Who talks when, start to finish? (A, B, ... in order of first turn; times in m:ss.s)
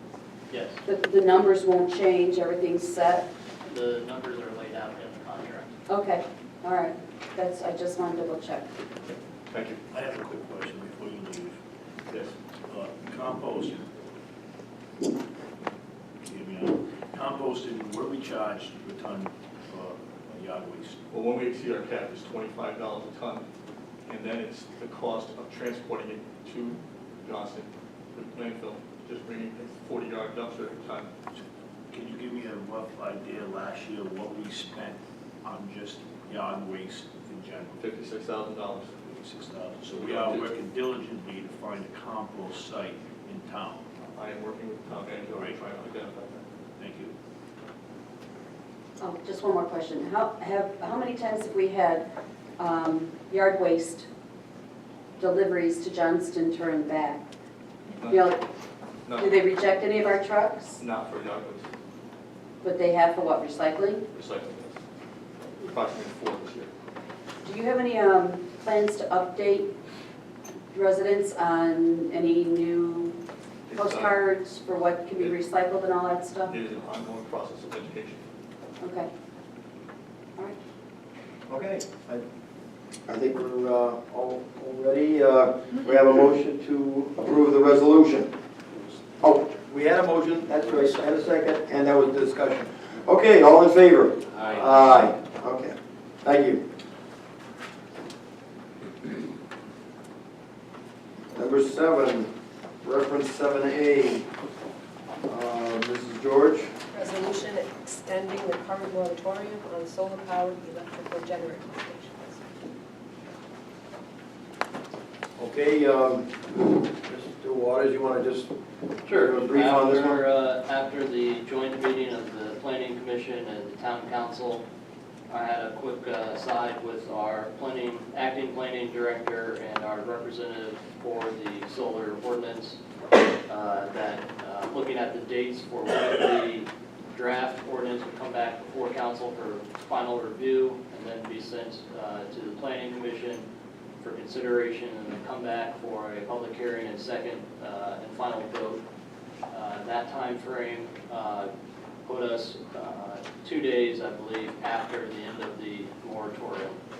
0:00.5-0:00.8 A
0:00.8-0:03.3 B
0:03.6-0:05.7 A
0:05.9-0:08.7 B
0:09.5-0:09.8 C
0:09.9-0:13.9 D
0:16.2-0:21.0 D
0:21.1-0:23.4 C
0:24.0-0:31.1 C
0:31.9-0:37.8 D
0:37.8-0:38.9 C
0:39.0-0:43.9 D
0:39.9-0:40.5 C
0:44.0-0:46.4 C
0:45.3-0:45.6 D
0:46.8-0:47.1 D
0:49.0-0:52.0 B
0:52.6-0:54.1 B
0:55.2-0:57.2 B
0:58.0-0:58.2 C
0:58.1-0:58.4 B
0:59.0-0:59.4 C
0:59.2-1:00.8 B
1:00.8-1:01.7 C
1:02.6-1:04.0 B
1:04.1-1:04.8 C
1:05.6-1:06.7 C
1:07.4-1:09.7 B
1:10.7-1:13.2 B
1:13.7-1:14.1 C
1:13.7-1:16.5 B
1:16.4-1:18.2 C
1:18.8-1:19.1 B
1:21.5-1:22.2 E
1:23.1-1:28.3 E
1:29.2-1:36.6 E
1:41.3-1:42.3 E
1:42.8-1:44.3 E
1:45.2-1:46.7 E
1:46.9-1:52.4 F
1:55.4-1:58.5 E
1:59.0-2:00.2 E
1:59.0-2:04.6 A
2:05.3-2:12.8 A
2:13.5-2:23.5 A
2:24.0-2:28.8 A
2:29.5-2:31.5 A
2:32.0-2:36.8 A